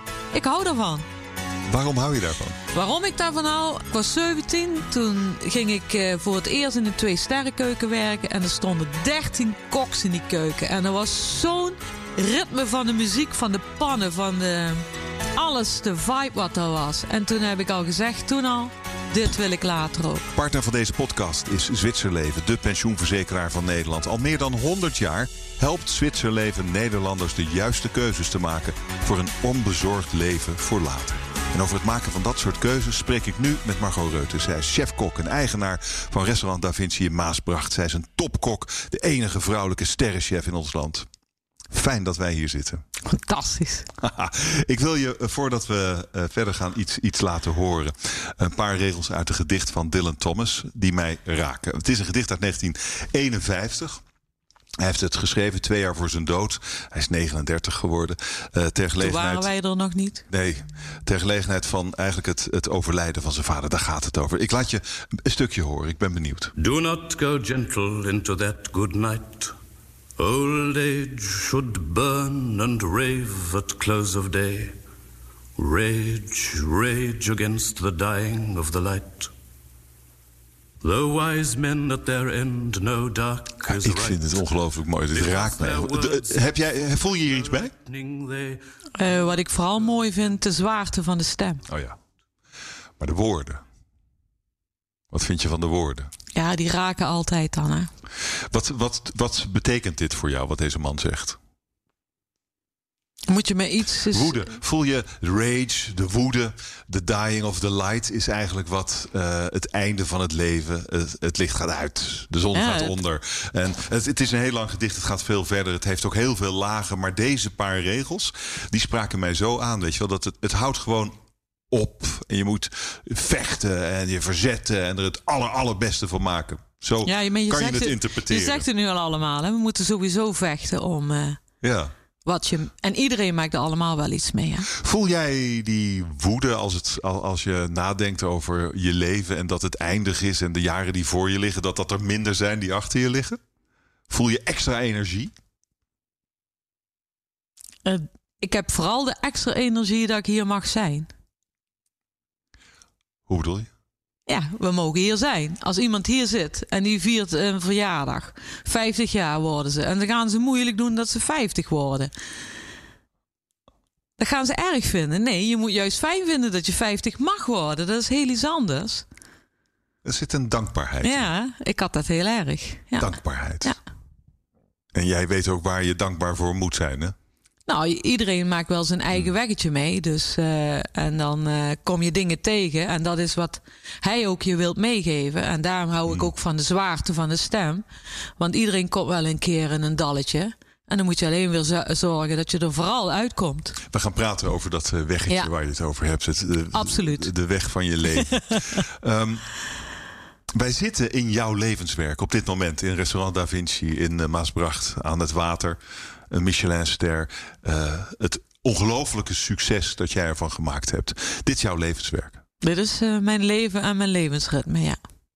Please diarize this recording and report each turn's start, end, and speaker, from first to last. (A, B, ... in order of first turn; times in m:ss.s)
0:00.3-0:01.1 A
0:01.7-0:02.6 B
0:02.7-0:20.3 A
0:20.4-0:41.1 B
0:41.7-0:42.8 B
0:43.0-0:43.9 A
0:44.0-0:54.0 B
0:54.8-0:59.5 B
0:59.0-1:00.2 A
1:00.3-1:06.5 B
1:06.6-1:09.5 C
1:10.2-1:14.8 C
1:15.6-1:19.3 C
1:20.8-1:24.3 C
1:23.6-1:27.7 B
1:25.1-1:28.6 C
1:29.0-1:31.6 A
1:31.7-1:32.0 B
1:33.0-1:33.6 B
1:35.1-1:36.1 B
1:36.3-1:37.9 A
1:38.2-1:41.4 B
1:43.3-1:44.5 A
1:44.1-2:01.2 B
1:52.5-1:53.0 A
2:01.7-2:08.7 B
2:07.0-2:11.4 A
2:11.6-2:11.9 B
2:12.2-2:14.7 A
2:14.7-2:23.4 B
2:24.1-2:25.3 B
2:27.8-2:31.1 A
2:33.3-2:33.7 B
2:34.3-2:42.1 A
2:44.2-2:49.0 A
2:50.0-2:51.3 B
2:51.0-2:53.8 A
2:53.0-2:53.8 B
2:54.9-2:57.2 B
2:57.7-3:07.8 A
3:08.4-3:13.8 A
3:13.9-3:19.5 B
3:16.7-3:17.3 A
3:18.3-3:18.6 A
3:20.5-3:32.4 B
3:32.6-3:35.0 A